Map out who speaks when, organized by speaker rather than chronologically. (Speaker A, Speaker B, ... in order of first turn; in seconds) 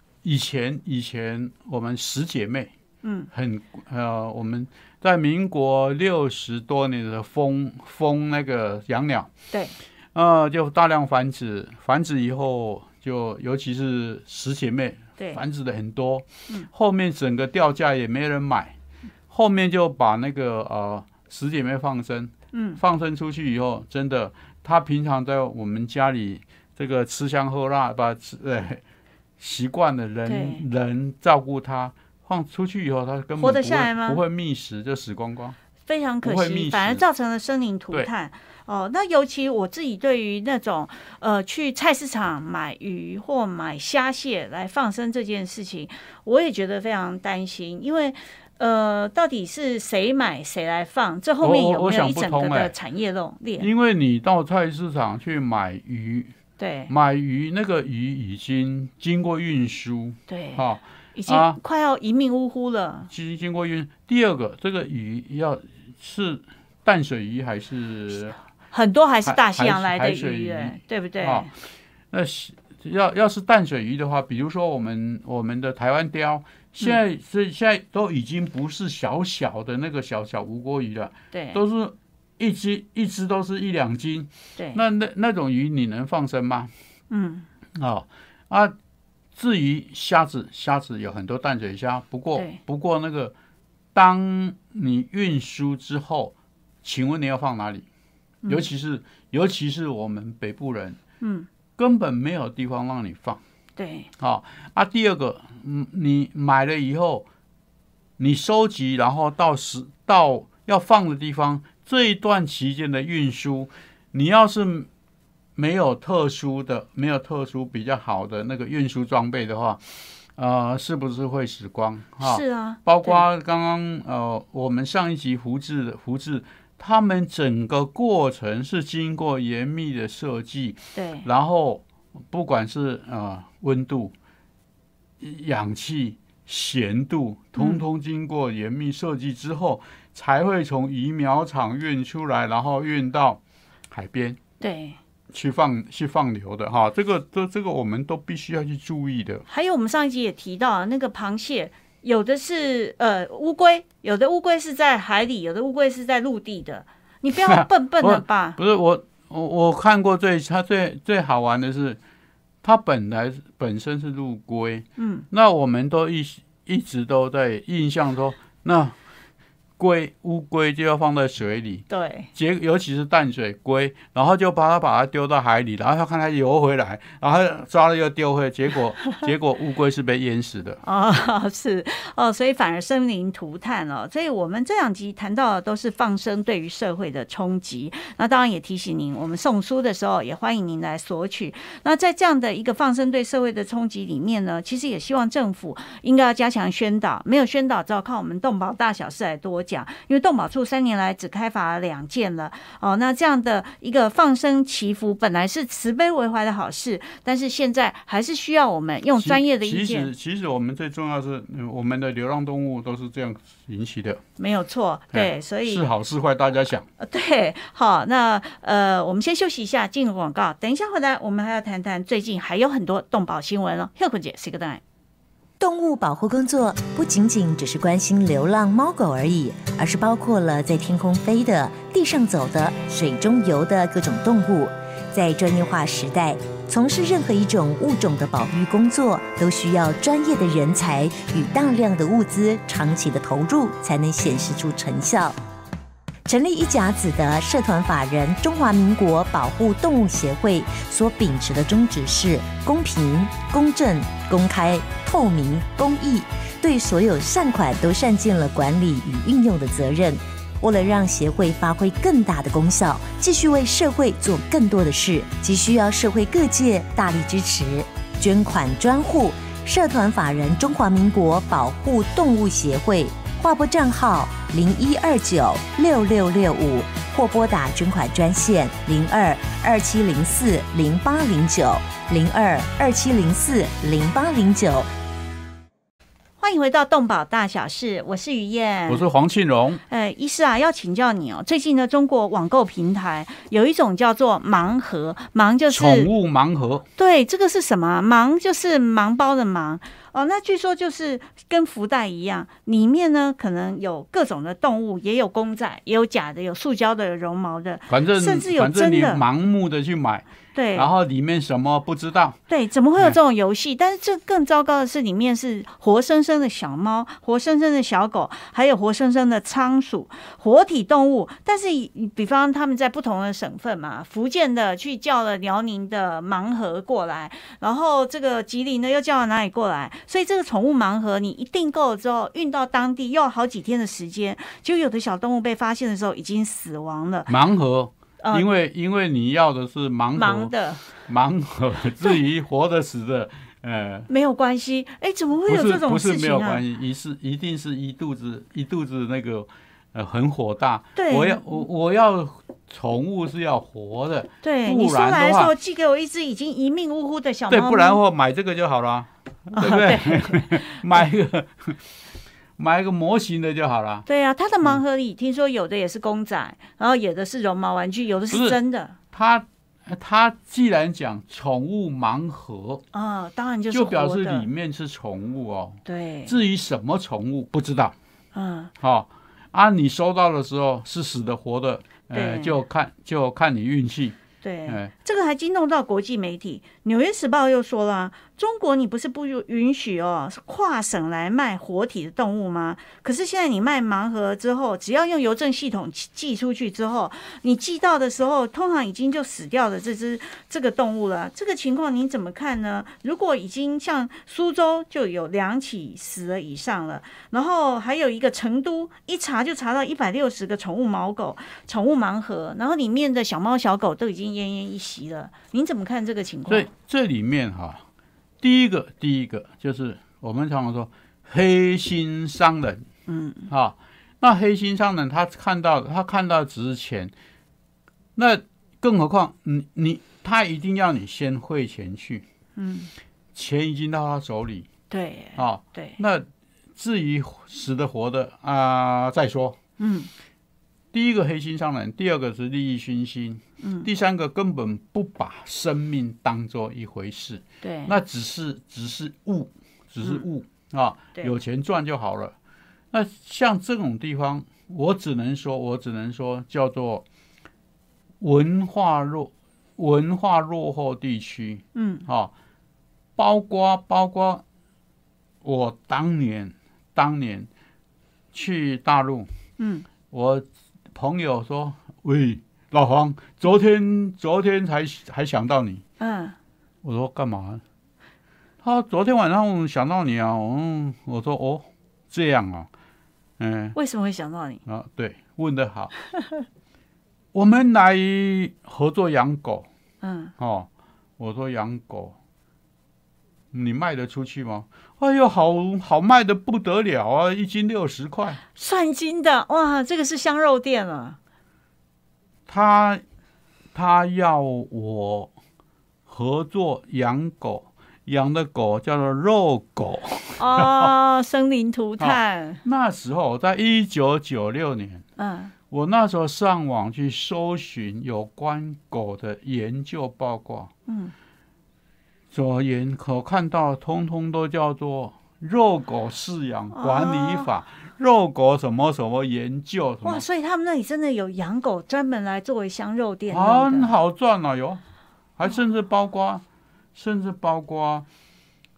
Speaker A: 0.2-2.7, 3.3-9.3, 10.1-18.8, 19.3-28.8, 29.4-35.5, 36.2-37.0, 51.4-52.7, 53.6-56.3, 56.9-61.6, 63.1-68.3, 69.2-71.5, 72.1-86.7, 87.8-88.7, 89.3-93.3, 93.9-97.8, 98.5-101.0, 101.8-103.4, 104.2-107.3, 108.2-114.9, 115.5-119.8, 120.4-134.1, 135.2-143.4, 143.9-144.4, 145.3-149.4, 157.3-162.0, 162.6-168.9, 169.8-180.8, 209.2-214.2, 215.1-216.8, 288.9-289.8, 295.7-296.8, 307.9-312.4, 337.3-340.5, 341.0-344.1, 345.4-355.5, 357.5-361.8, 362.6-364.1, 368.3-368.6, 369.1-372.8, 373.7-377.9, 378.8-384.9, 416.5-417.8, 418.4-422.8, 423.5-427.1, 428.1-432.2, 433.3-434.7, 435.4-439.6, 440.9-452.3, 452.9-457.0, 458.2-462.3, 463.2-464.4, 465.4-467.5, 468.3-469.3, 470.1-475.8, 476.8-477.6, 478.6-482.7, 483.4-483.8, 484.6-485.9, 487.3-489.6, 490.4-492.1, 493.5-498.4, 502.5-503.0, 503.7-505.3, 506.1-510.9, 512.0-515.0, 515.7-520.7, 522.3-530.2, 533.3-534.8, 535.4-536.4, 536.9-538.1
Speaker B: 3.0-3.3, 9.5-9.8, 22.5-22.8, 30.2-30.6, 33.4-34.2, 35.9-53.7, 56.6-56.9, 60.3-60.6, 61.1-63.1, 68.7-71.5, 81.3-81.6, 84.5-84.8, 87.1-87.5, 98.4-98.7, 101.2-101.5, 103.8-104.1, 122.2-123.2, 130.9-131.3, 137.6-137.8, 144.6-145.0, 149.5-158.6, 165.0-165.2, 171.9-172.3, 180.8-210.1, 214.4-215.8, 217.0-224.8, 286.4-289.0, 289.9-296.1, 297.0-309.2, 310.5-310.9, 312.5-337.3, 338.2-338.5, 340.1-340.9, 344.1-346.6, 350.9-351.6, 354.4-358.0, 359.5-361.0, 364.1-369.0, 372.9-374.5, 375.8-376.4, 378.3-378.7, 382.1-382.6, 384.4-416.7, 423.1-423.5, 432.6-432.9, 434.9-436.0, 439.8-440.1, 443.6-443.9, 447.6-447.9, 461.7-462.1, 469.6-469.9, 476.0-476.4, 483.7-484.6, 490.0-490.3, 498.5-501.2, 510.4-512.6, 515.2-515.5, 520.9-521.1, 526.7-527.5, 530.0-533.9
Speaker C: 225.6-245.3, 246.2-284.9